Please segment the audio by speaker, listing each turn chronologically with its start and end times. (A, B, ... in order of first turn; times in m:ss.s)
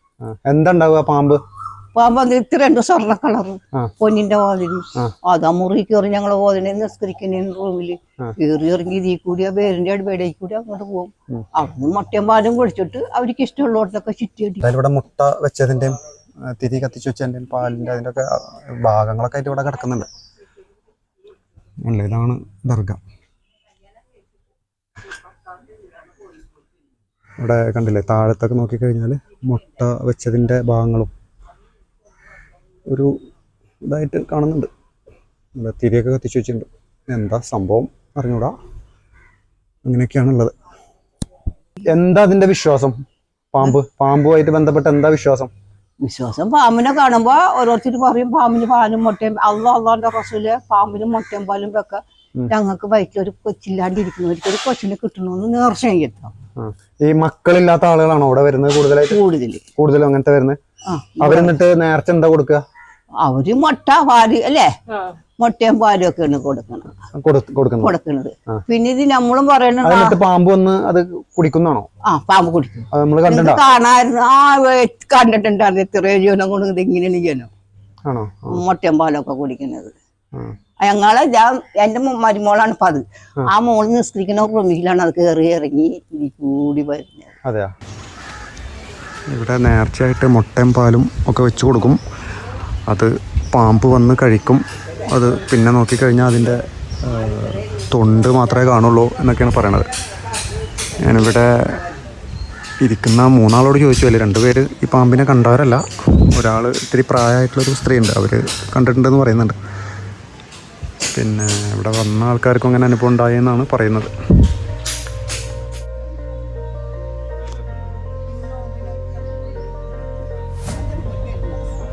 0:00.2-0:01.4 A
0:02.0-0:14.6 B
0:14.6-0:20.1 A
0:21.8-0:23.0 A
0:27.4-0:31.1 A
0:33.9-0:34.7 A
0:35.6-0:38.5 A
0:39.9-0:40.5 A
0:41.9-0:43.0 A
0:43.5-0:45.5 A
0:46.0-0:56.3 B
0:56.6-0:59.2 A
0:59.1-0:59.6 B
0:59.8-1:00.6 A
1:00.9-1:01.6 B
1:01.2-1:02.6 A
1:03.2-1:04.7 B
1:05.4-1:06.9 B
1:07.1-1:07.9 A
1:07.8-1:10.2 B
1:09.8-1:11.9 A
1:12.0-1:17.5 B
1:12.9-1:13.6 A
1:18.1-1:18.6 A
1:18.5-1:19.9 B
1:20.8-1:27.4 B
1:27.4-1:27.7 A
1:29.3-1:32.0 A
1:32.9-1:39.9 A
1:41.0-1:41.8 A
1:42.8-1:49.6 A
1:51.0-1:54.1 A
1:58.5-1:59.4 B
2:00.7-2:01.6 B